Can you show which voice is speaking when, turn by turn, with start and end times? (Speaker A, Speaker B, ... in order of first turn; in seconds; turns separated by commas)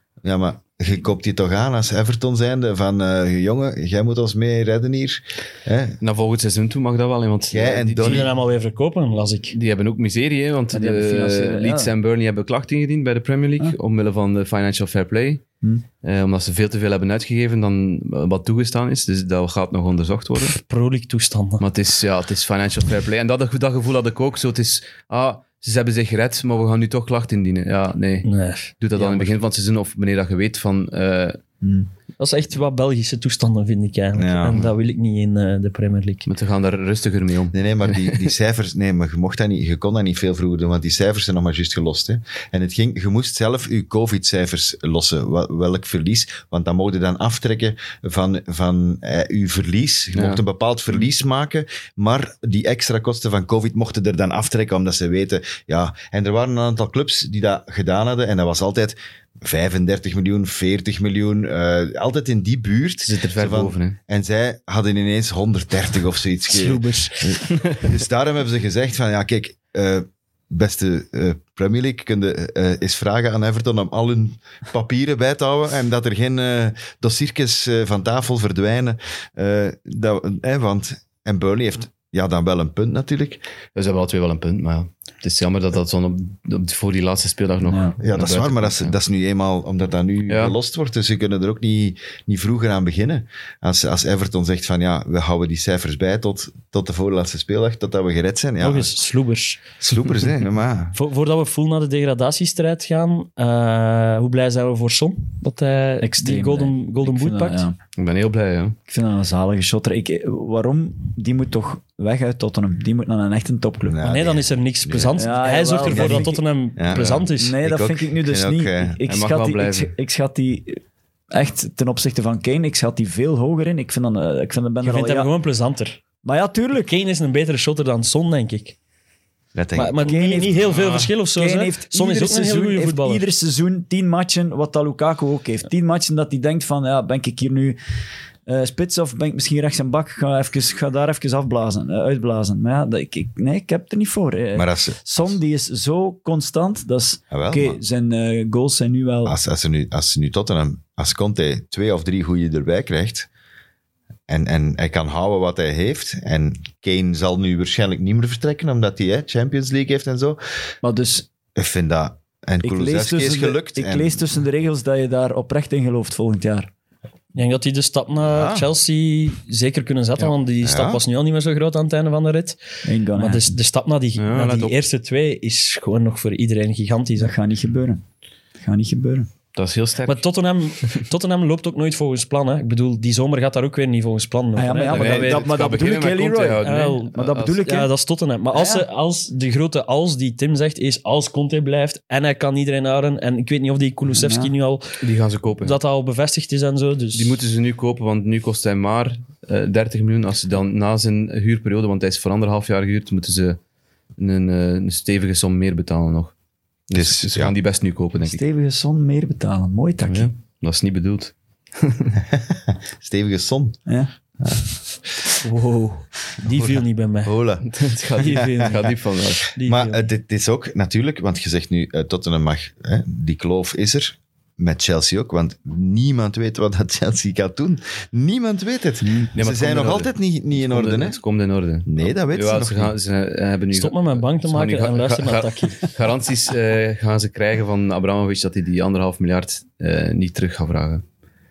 Speaker A: 0.2-6.0, Speaker B: 6.0-8.3, Speaker A: 7.5-8.3, Speaker C: 8.0-9.5, Speaker B: 9.5-15.4, Speaker D: 10.7-11.9, Speaker B: 16.0-20.6, Speaker C: 20.5-21.6, Speaker B: 21.6-28.3, Speaker C: 28.2-28.8, Speaker B: 28.8-31.4, Speaker D: 29.0-29.2, Speaker D: 31.6-31.9, Speaker C: 32.2-36.3, Speaker A: 34.1-34.6, Speaker B: 36.2-38.3, Speaker A: 37.5-83.4, Speaker B: 50.1-50.4, Speaker B: 63.0-64.0, Speaker C: 66.5-67.4, Speaker B: 83.7-88.9, Speaker D: 87.6-88.0, Speaker A: 88.0-98.9, Speaker B: 90.3-90.5, Speaker C: 98.6-99.6, Speaker A: 99.8-100.9, Speaker C: 100.9-107.7, Speaker D: 106.0-107.8, Speaker B: 108.0-108.8, Speaker D: 108.9-114.0, Speaker A: 113.8-115.3, Speaker C: 114.0-117.6, Speaker D: 115.2-116.4, Speaker A: 115.8-119.0, Speaker B: 116.9-117.2, Speaker D: 117.3-125.3, Speaker B: 119.0-119.9, Speaker C: 124.8-126.0, Speaker D: 126.2-126.8, Speaker C: 126.7-128.8, Speaker A: 129.5-129.9, Speaker C: 129.7-133.2, Speaker D: 129.9-130.7, Speaker B: 130.7-131.1, Speaker D: 131.3-137.8, Speaker D: 138.5-149.3, Speaker A: 144.5-145.0, Speaker A: 147.3-147.8, Speaker A: 149.2-153.3, Speaker A: 154.3-160.4, Speaker D: 160.8-161.3, Speaker A: 161.6-164.4, Speaker D: 162.6-166.7, Speaker C: 167.3-172.6, Speaker A: 168.3-168.7, Speaker A: 170.6-171.0, Speaker D: 172.8-173.5, Speaker C: 173.1-177.3, Speaker B: 174.2-174.8, Speaker D: 177.2-178.0, Speaker D: 178.6-179.3, Speaker B: 179.5-180.2, Speaker C: 180.1-185.5, Speaker D: 184.6-187.9, Speaker B: 184.9-187.6, Speaker C: 186.6-195.0, Speaker D: 188.5-188.9, Speaker D: 194.1-194.5, Speaker B: 195.0-195.8, Speaker C: 195.6-197.4, Speaker B: 197.1-203.6, Speaker B: 204.2-206.3, Speaker B: 206.9-208.4, Speaker A: 206.9-207.5, Speaker D: 208.2-210.3, Speaker B: 210.0-212.2, Speaker A: 212.3-213.8, Speaker C: 215.4-217.3, Speaker A: 216.4-217.7, Speaker B: 217.6-219.5, Speaker C: 218.2-218.9, Speaker A: 218.3-218.7, Speaker C: 219.5-220.1, Speaker A: 219.6-231.2, Speaker D: 229.0-229.3, Speaker B: 229.3-241.0, Speaker A: 231.8-232.9, Speaker C: 233.7-235.9